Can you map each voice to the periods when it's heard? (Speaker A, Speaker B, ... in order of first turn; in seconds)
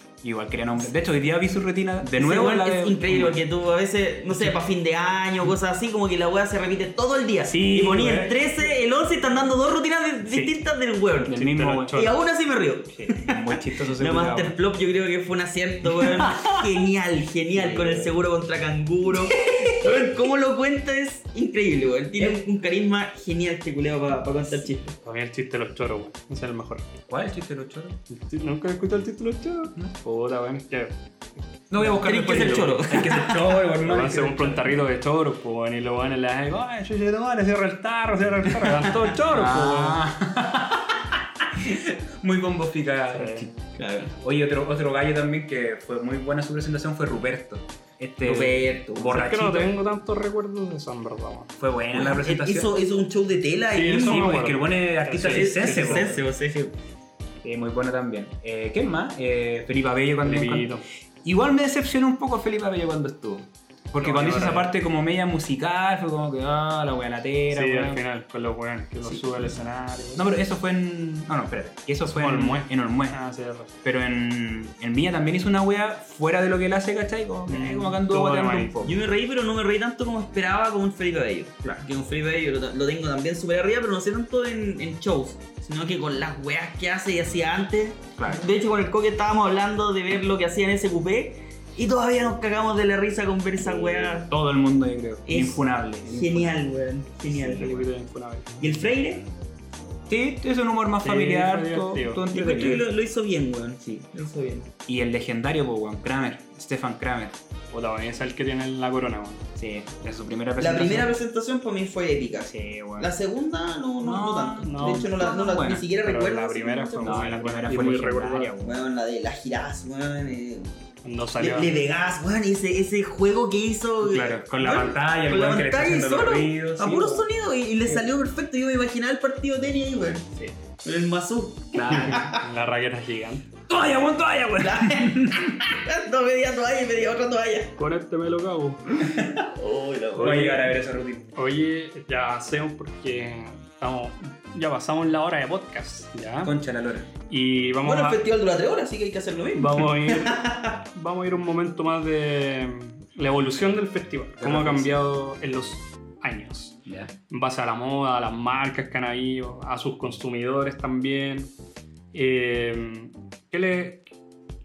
Speaker A: 0.2-3.4, 7.5-8.3, 10.3-10.6, 11.2-12.1, 12.9-14.6, 16.0-16.7, 17.5-18.1, 27.1-28.0, 31.7-34.7, 39.3-43.5, 44.2-49.7, 51.6-52.7, 54.0-56.2, 57.4-68.0, 69.0-69.5, 70.2-73.2, 73.8-79.0, 88.2-88.5, 93.6-96.6, 97.3-97.8, 100.1-102.9, 104.9-107.4, 109.6-111.2, 112.5-113.1, 114.0-115.8, 117.0-118.8, 124.0-127.2, 131.7-132.4, 133.7-135.8, 140.2-141.3, 146.4-147.1, 154.4-155.0, 156.9-157.1
Speaker B: 2.2-11.4, 11.9-25.0, 32.0-33.6, 43.8-44.1, 48.2-49.1, 51.9-54.5, 55.2-56.7, 78.8-94.3, 95.3-97.8, 98.6-99.2, 102.3-104.7, 110.6-118.0, 118.6-120.7, 121.4-130.3, 130.8-132.4, 134.6-137.8, 139.1-140.7, 147.8-150.8
Speaker C: 11.3-12.2, 25.0-26.9, 28.1-30.9, 31.8-32.6, 33.9-40.0, 43.1-43.5, 49.0-51.5, 53.7-56.2, 60.2-60.8, 64.0-64.7, 67.5-70.2, 72.1-73.7, 77.5-78.8, 97.4-98.5, 101.0-102.3, 107.7-109.5, 114.6-115.2, 116.0-118.5, 121.0-121.7, 131.9-133.5, 137.8-139.1, 140.2-140.6, 141.4-146.5, 147.3-148.2, 149.6-150.4, 150.9-161.5, 162.1-164.0